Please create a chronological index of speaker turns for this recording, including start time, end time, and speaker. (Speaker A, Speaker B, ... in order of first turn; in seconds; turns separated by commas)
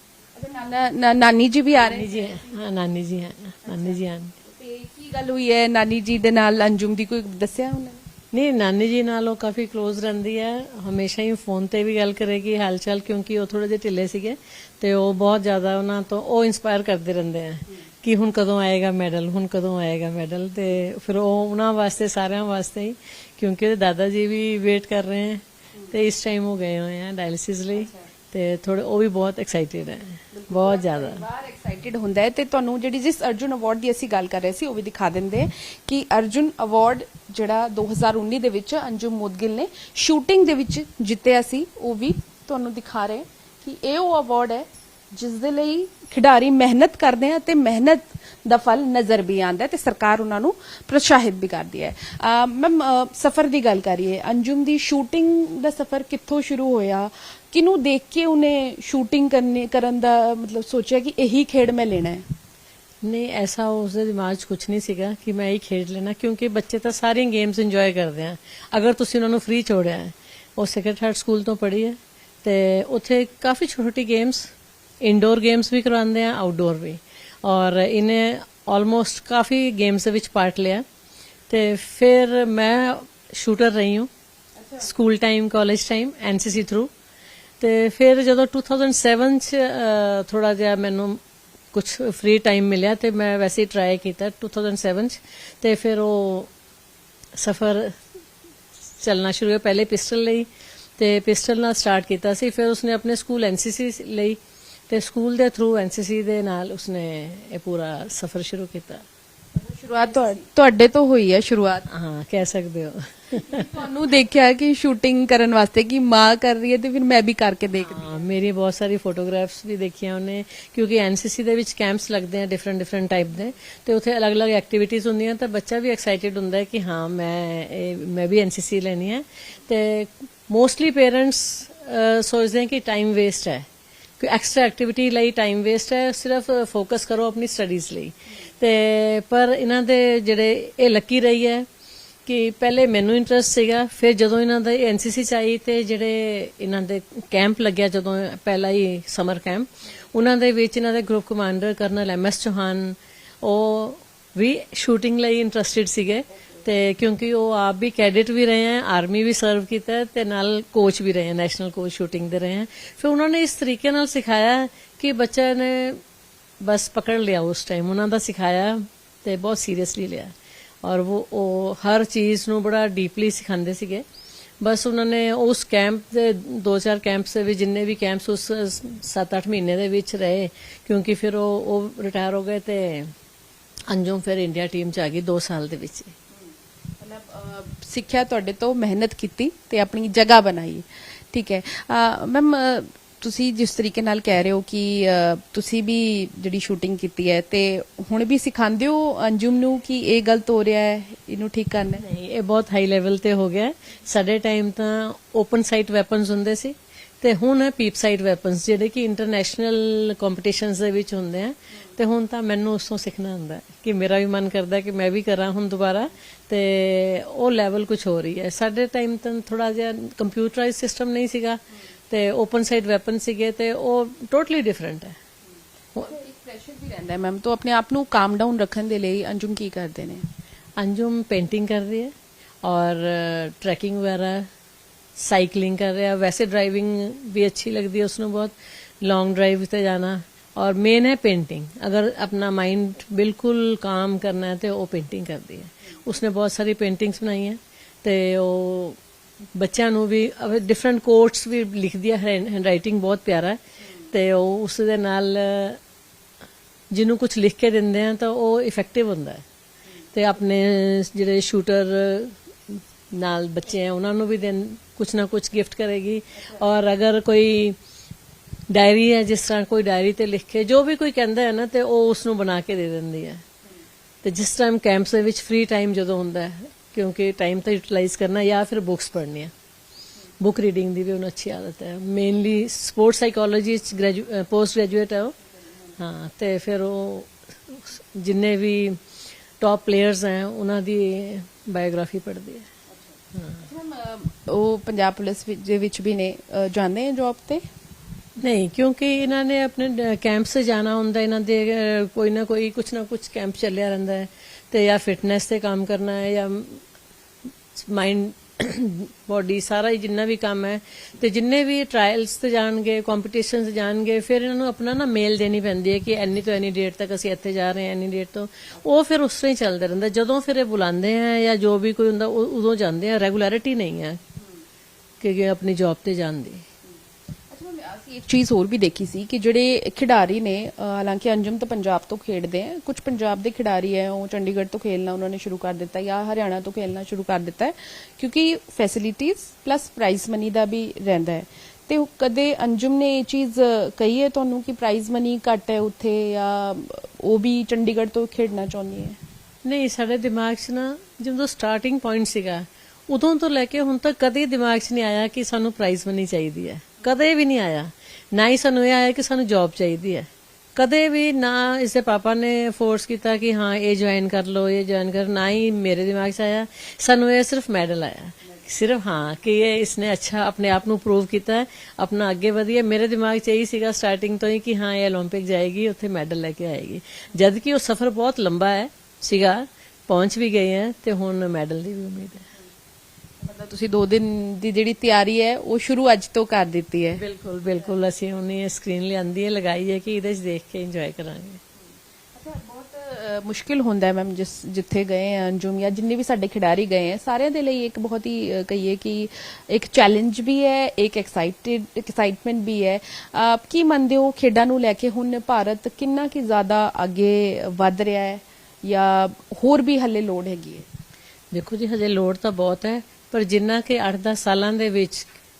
Speaker A: 0.3-2.4, Speaker B: 1.8-4.3, Speaker A: 3.6-8.0, Speaker B: 8.3-31.2, Speaker A: 30.3-62.2, Speaker B: 63.0-74.5, Speaker B: 75.0-80.8, Speaker B: 81.5-84.1, Speaker A: 84.6-84.9, Speaker B: 84.8-86.9, Speaker B: 87.6-91.2, Speaker B: 91.7-96.5, Speaker B: 97.3-98.0, Speaker B: 99.0-109.0, Speaker A: 109.5-111.8, Speaker B: 111.9-113.7, Speaker A: 113.3-118.1, Speaker B: 117.8-133.7, Speaker B: 134.2-141.7, Speaker B: 142.2-166.0, Speaker B: 166.6-174.0, Speaker B: 174.6-183.1, Speaker B: 183.9-186.1, Speaker A: 187.0-202.0, Speaker B: 202.0-225.1, Speaker A: 226.0-230.2, Speaker B: 230.8-232.1, Speaker B: 232.6-234.4, Speaker B: 235.2-249.0, Speaker B: 249.6-253.6, Speaker B: 254.1-255.8, Speaker B: 256.9-259.4, Speaker B: 260.1-267.8, Speaker B: 268.7-273.4, Speaker B: 274.2-279.5, Speaker B: 280.4-285.3, Speaker B: 286.0-289.0, Speaker B: 289.6-292.7, Speaker A: 293.6-297.6, Speaker B: 298.4-306.8, Speaker B: 307.8-324.2, Speaker B: 325.2-326.6, Speaker A: 327.5-349.2, Speaker B: 349.6-382.4, Speaker A: 383.4-387.2, Speaker B: 387.2-391.6, Speaker A: 392.3-410.9, Speaker B: 411.5-415.3